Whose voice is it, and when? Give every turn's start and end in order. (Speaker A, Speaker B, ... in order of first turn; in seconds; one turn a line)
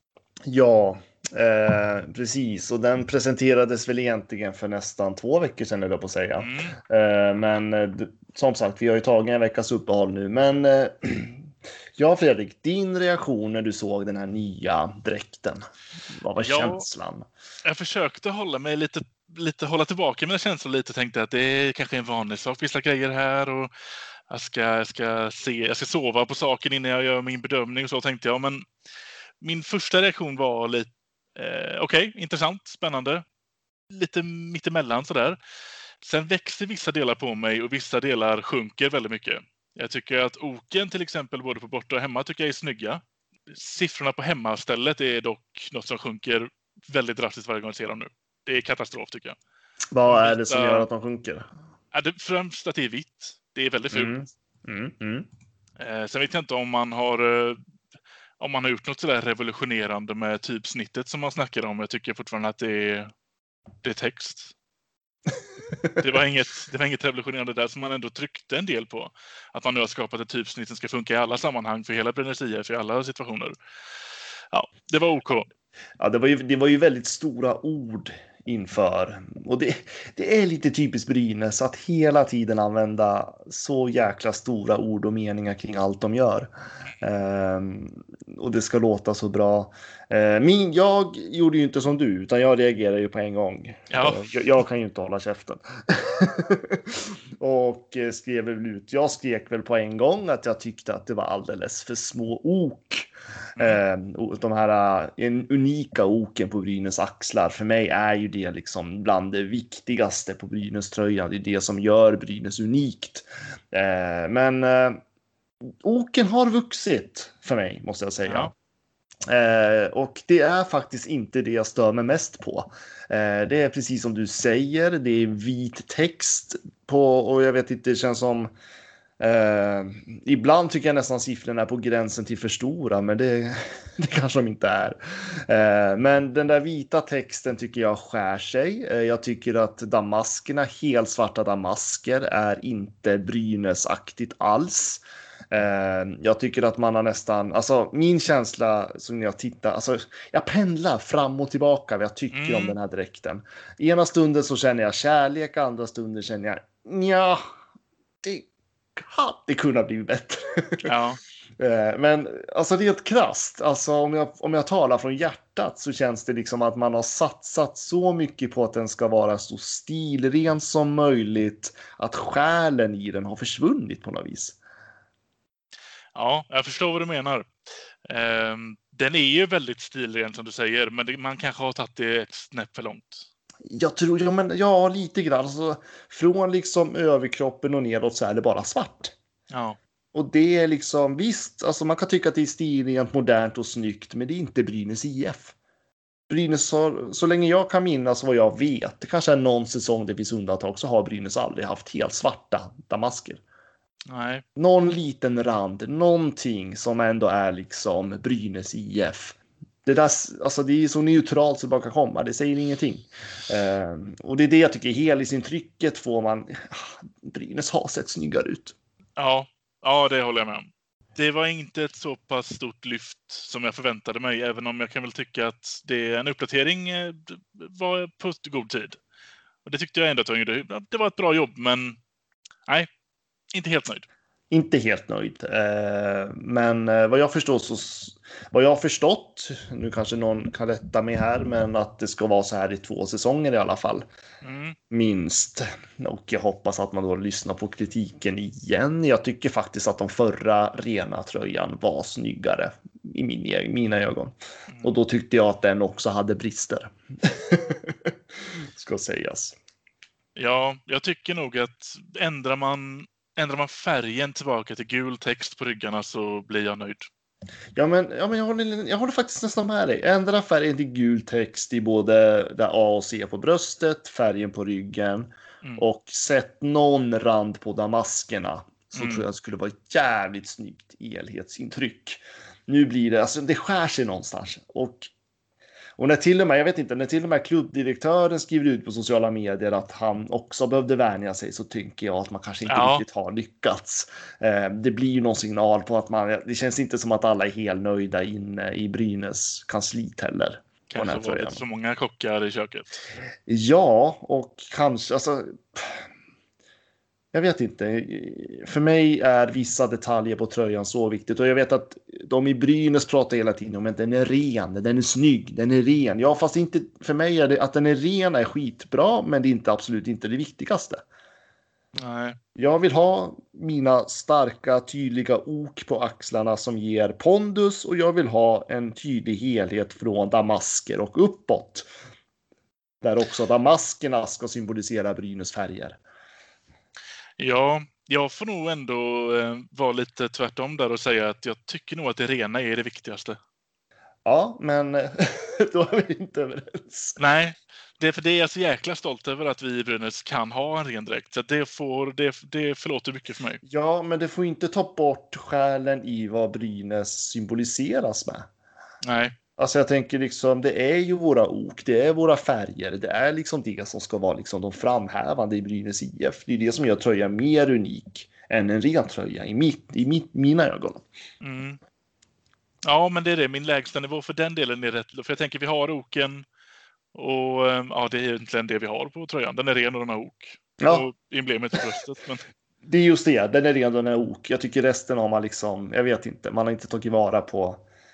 Speaker A: 0.5-15.6
Speaker B: 6.4-6.8
Speaker A: 16.2-17.3
Speaker B: 16.4-16.8
Speaker B: 17.6-23.7
Speaker B: 24.3-28.7
Speaker B: 29.4-33.2
Speaker B: 33.9-35.4
Speaker B: 36.0-49.4
Speaker A: 49.9-51.5
Speaker B: 50.0-50.9
Speaker B: 51.9-54.1
Speaker A: 53.9-55.3
Speaker B: 55.8-57.6
Speaker B: 58.4-63.1
Speaker B: 63.8-64.5
Speaker B: 66.0-73.5
Speaker B: 74.5-75.5
Speaker A: 76.0-115.0
Speaker B: 93.9-94.3
Speaker A: 115.8-118.5
Speaker B: 118.2-118.5
Speaker A: 119.3-128.5
Speaker A: 129.2-157.4
Speaker B: 152.3-152.8
Speaker A: 158.2-160.9
Speaker B: 160.8-161.2
Speaker A: 161.6-174.6
Speaker B: 176.1-177.5
Speaker B: 178.1-183.3
Speaker A: 183.7-189.1
Speaker B: 189.5-189.8
Speaker A: 190.1-195.5
Speaker A: 196.3-203.4
Speaker B: 204.1-204.4
Speaker A: 204.6-218.7
Speaker B: 219.2-229.0
Speaker B: 229.6-232.0
Speaker B: 233.5-234.1
Speaker A: 234.5-244.1
Speaker B: 244.4-244.8
Speaker A: 244.9-259.5
Speaker B: 254.7-254.9
Speaker B: 260.4-267.1
Speaker A: 267.7-285.1
Speaker B: 278.9-279.2
Speaker A: 286.0-301.6
Speaker B: 292.7-293.0
Speaker B: 300.9-303.0
Speaker A: 303.5-306.1
Speaker A: 307.3-321.0
Speaker B: 322.0-322.4
Speaker A: 322.6-331.9
Speaker A: 333.0-336.0
Speaker B: 337.4-343.4
Speaker A: 344.2-347.1
Speaker B: 347.2-353.6
Speaker A: 353.6-358.5
Speaker B: 359.0-359.3
Speaker A: 359.6-371.0
Speaker B: 371.4-371.8
Speaker B: 372.8-376.4
Speaker B: 377.1-382.4
Speaker A: 380.8-381.1
Speaker A: 382.8-387.8